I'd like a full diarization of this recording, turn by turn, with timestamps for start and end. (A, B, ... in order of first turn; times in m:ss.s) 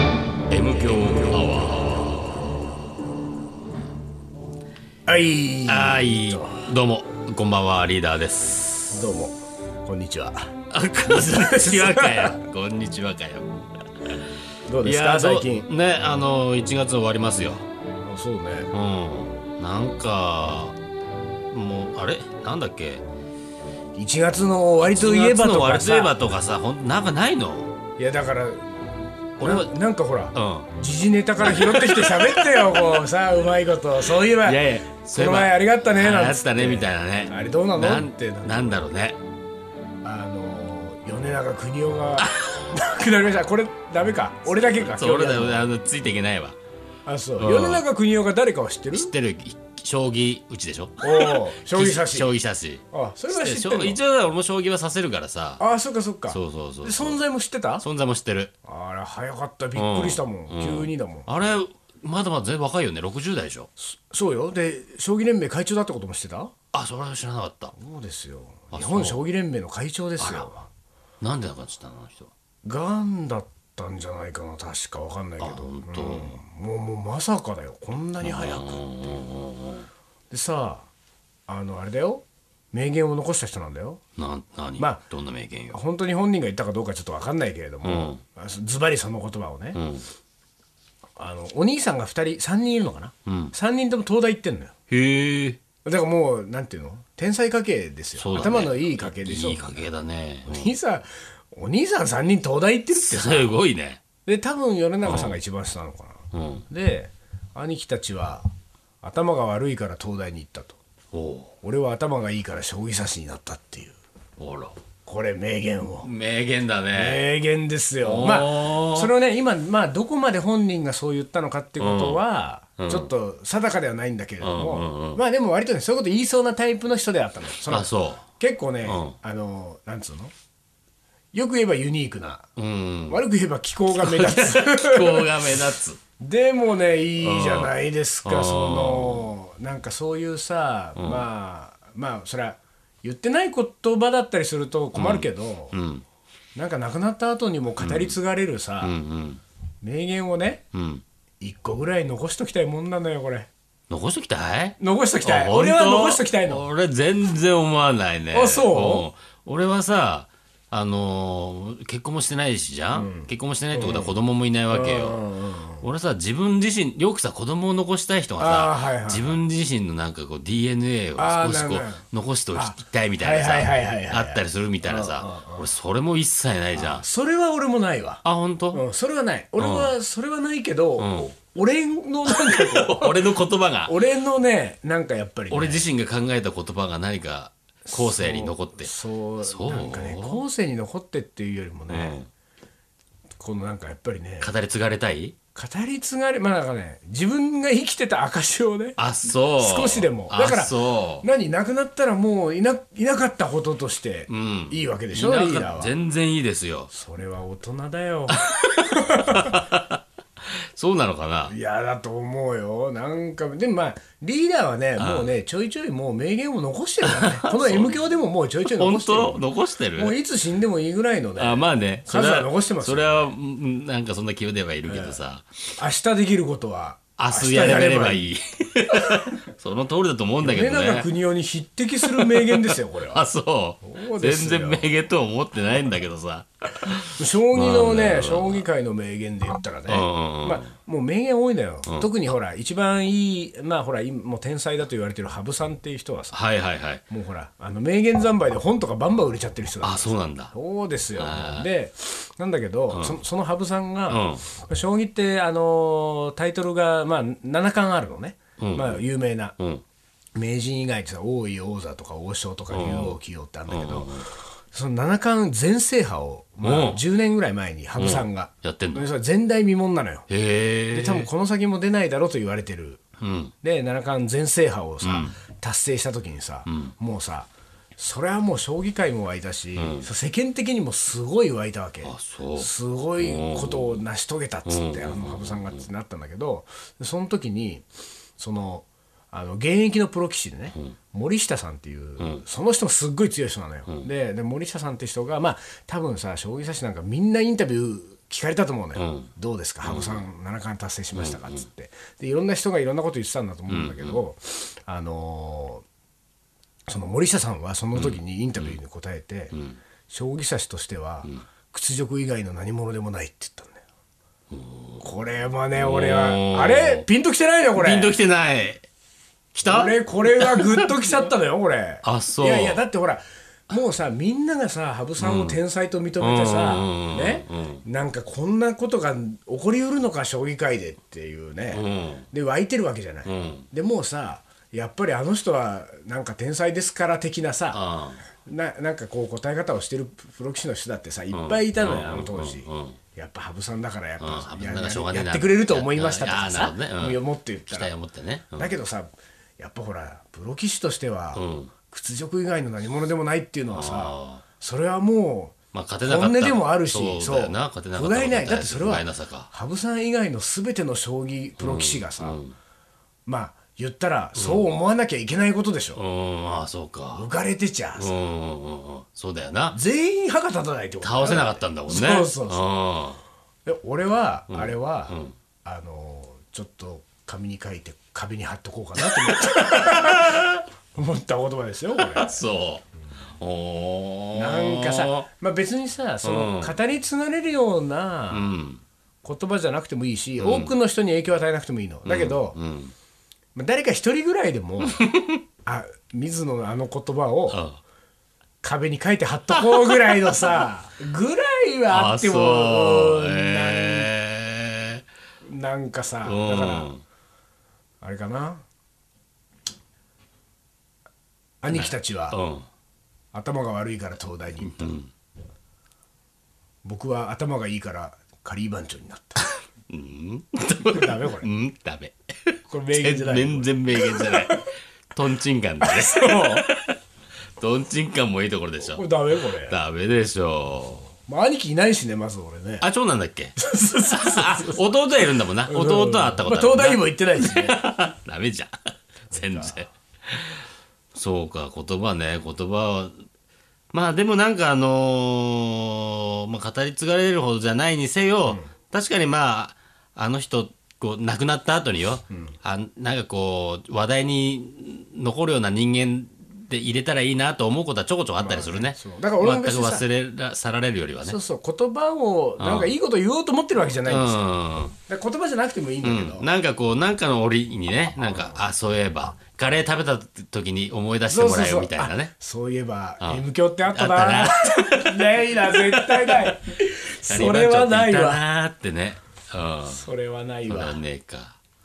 0:00.5-0:02.4 A
0:05.0-0:06.6 B
0:05.6-0:09.0 A
0:08.9-0:10.5 B
0:10.7-0:13.5 A
0:11.1-0:12.4 B
0:14.7-0:15.7 B
0:14.8-0:17.6 A
0:18.0-0:18.7 B
0:18.7-0:20.8 A
0:21.5-0:23.0 A
0:24.0-0:26.2 B
0:24.8-0:27.7 A
0:28.0-0:28.7 B
0:29.4-0:29.7 A
0:29.4-0:38.8 B
0:30.3-0:30.7 A
0:31.4-0:33.0 A
0:34.2-0:39.2 A
0:40.0-0:45.7 B
0:42.2-0:42.6 A
0:44.5-0:46.6 A
0:47.0-0:49.1 B
0:47.4-0:47.8 A
0:48.9-0:55.6 A
0:51.0-0:52.3 B
0:52.9-0:54.0 B
0:55.6-0:57.8 B
0:56.3-0:57.2 A
0:57.8-0:58.5 A
0:58.6-1:01.3 B
0:59.7-1:03.7 A
1:03.8-1:06.5 B
1:06.7-1:07.7 A
1:07.7-1:10.7 B
1:08.7-1:09.2 A
1:10.2-1:10.5 A
1:11.2-1:12.3 A
1:12.6-1:18.8 B
1:15.4-1:16.4 A
1:18.2-1:19.9 A
1:20.3-1:20.9 B
1:21.5-1:24.0 B
1:24.2-1:25.8 A
1:24.8-1:25.0 B
1:25.7-1:29.8 B
1:27.8-1:28.2 A
1:29.7-1:30.1 A
1:31.2-1:34.7 B
1:33.2-1:33.5 A
1:34.9-1:35.6 A
1:35.8-1:39.8 B
1:38.2-1:40.7 A
1:40.5-1:43.6 B
1:42.9-1:44.0 A
1:44.2-1:48.5 B
1:45.0-1:45.4 A
1:46.3-1:46.6 A
1:49.0-1:50.8 B
1:51.1-1:51.5 A
1:51.6-1:54.0 B
1:54.4-1:54.8 A
1:55.0-1:56.1 B
1:56.0-1:57.2 A
1:56.9-2:10.3 B
1:58.0-1:59.1 A
2:01.8-2:02.2 A
2:02.8-2:03.1 A
2:04.4-2:05.2 A
2:07.7-2:08.2 A
2:08.8-2:09.1 A
2:11.3-2:12.4 B
2:12.6-2:13.2 A
2:13.1-2:15.5 B
2:13.9-2:16.0 A
2:16.2-2:25.8 B
2:17.2-2:17.7 A
2:18.2-2:19.3 A
2:21.0-2:21.3 A
2:24.9-2:26.0 A
2:26.6-2:28.9 B
2:27.8-2:28.2 A
2:28.8-2:29.4 A
2:29.8-2:30.6 B
2:30.7-2:31.0 A
2:31.4-2:33.5 B
2:33.9-2:45.2 A
2:34.8-2:36.6 B
2:38.3-2:39.1 B
2:42.9-2:44.2 B
2:44.7-2:45.8 B
2:45.8-2:57.0 A
2:48.4-2:49.4 B
2:51.2-2:55.7 B
2:56.7-2:58.2 B
2:58.2-2:58.8 A
2:58.7-3:05.8 B
2:59.6-2:59.9 A
3:01.0-3:01.3 A
3:02.3-3:03.9 A
3:05.5-3:10.4 A
3:07.8-3:12.2 B
3:11.9-3:12.3 A
3:13.4-3:14.5 B
3:14.4-3:15.4 A
3:15.5-3:19.0 B
3:19.0-3:21.2 A
3:19.6-3:25.9 B
3:24.3-3:26.9 A
3:26.9-3:29.7 B
3:28.3-3:31.5 A
3:31.4-3:39.4 B
3:35.0-3:35.3 A
3:37.0-3:38.0 A
3:38.6-3:40.1 A
3:40.0-3:43.3 B
3:41.4-3:45.5 A
3:44.9-3:45.2 B
3:45.8-3:48.3 B
3:47.2-3:51.1 A
3:49.0-3:49.3 B
3:50.4-3:53.2 B
3:52.0-3:58.6 A
3:53.8-3:54.8 B
3:57.1-4:06.4 B
3:59.9-4:00.7 A
4:06.3-4:07.0 A
4:07.1-4:19.5 B
4:09.8-4:10.5 A
4:11.1-4:11.7 A
4:12.9-4:13.2 A
4:14.1-4:14.4 A
4:18.6-4:19.0 A
4:19.6-4:19.8 A
4:20.4-4:30.3 B
4:22.7-4:24.3 A
4:26.6-4:27.0 A
4:28.0-4:29.0 A
4:30.3-4:31.3 A
4:30.9-4:33.0 B
4:33.2-4:33.5 A
4:33.6-4:47.8 B
4:35.0-4:35.4 A
4:36.7-4:36.9 A
4:39.8-4:40.1 A
4:42.0-4:44.0 A
4:44.6-4:45.8 A
4:48.4-5:05.8 B
4:59.0-4:59.3 A
4:59.8-5:00.2 A
5:01.1-5:01.6 A
5:03.7-5:04.2 A
5:06.9-5:09.5 B
5:07.9-5:08.8 A
5:09.5-5:09.8 A
5:10.1-5:13.8 B
5:14.5-5:15.0 A
5:15.0-5:18.1 B
5:15.7-5:17.0 A
5:17.7-5:18.8 A
5:19.5-5:20.9 A
5:19.6-5:37.8 B
5:22.0-5:22.8 A
5:25.2-5:25.6 A
5:26.2-5:27.8 A
5:31.7-5:32.2 A
5:33.2-5:33.7 A
5:37.7-5:38.2 A
5:38.4-5:47.9 B
5:41.3-5:43.0 A
5:44.2-5:48.7 A
5:48.6-6:02.4 B
5:51.3-5:51.7 A
5:53.7-5:54.4 A
5:55.7-5:59.5 A
6:01.6-6:02.5 A
6:03.2-6:06.0 B
6:04.4-6:04.6 A
6:06.0-6:07.3 A
6:07.1-6:08.1 B
6:08.0-6:09.8 A
6:09.7-6:12.6 B
6:11.0-6:13.2 A
6:13.6-6:22.4 B
6:14.5-6:15.3 A
6:19.0-6:20.6 A
6:22.0-6:22.8 A
6:23.4-6:25.3 A
6:24.3-6:28.5 B
6:26.2-6:26.7 A
6:28.3-6:28.8 A
6:29.2-6:32.6 B
6:30.4-6:30.7 A
6:32.0-6:32.9 A
6:33.5-6:35.0 B
6:34.9-6:35.4 A
6:35.6-6:37.6 B
6:37.5-6:37.8 A
6:38.6-6:44.1 B
6:39.5-6:40.5 A
6:41.9-6:45.0 A
6:45.4-6:46.9 B
6:46.2-6:47.0 A
6:48.0-6:48.6 B
6:51.6-6:52.4 B
6:51.7-6:52.6 A
6:53.3-6:55.0 B
6:54.6-6:55.1 A
6:56.8-6:59.5 B
6:59.9-7:07.0 A
7:00.9-7:01.5 B
7:02.7-7:04.6 B
7:05.8-7:06.7 B
7:07.6-7:11.1 A
7:08.9-7:09.8 B
7:11.2-7:12.8 B
7:12.8-7:20.6 A
7:13.6-7:14.8 B
7:15.6-7:17.8 B
7:19.3-7:19.8 B
7:21.1-7:23.1 A
7:23.9-7:41.4 A
7:38.4-7:40.0 B
7:41.2-7:46.5 B
7:42.6-7:42.9 A
7:44.0-7:44.9 A
7:46.0-7:52.3 A
7:48.2-7:48.6 B
7:51.3-7:58.4 B
7:53.2-7:56.6 A
7:57.3-8:00.0 A
7:59.8-8:01.0 B
8:00.7-8:01.6 A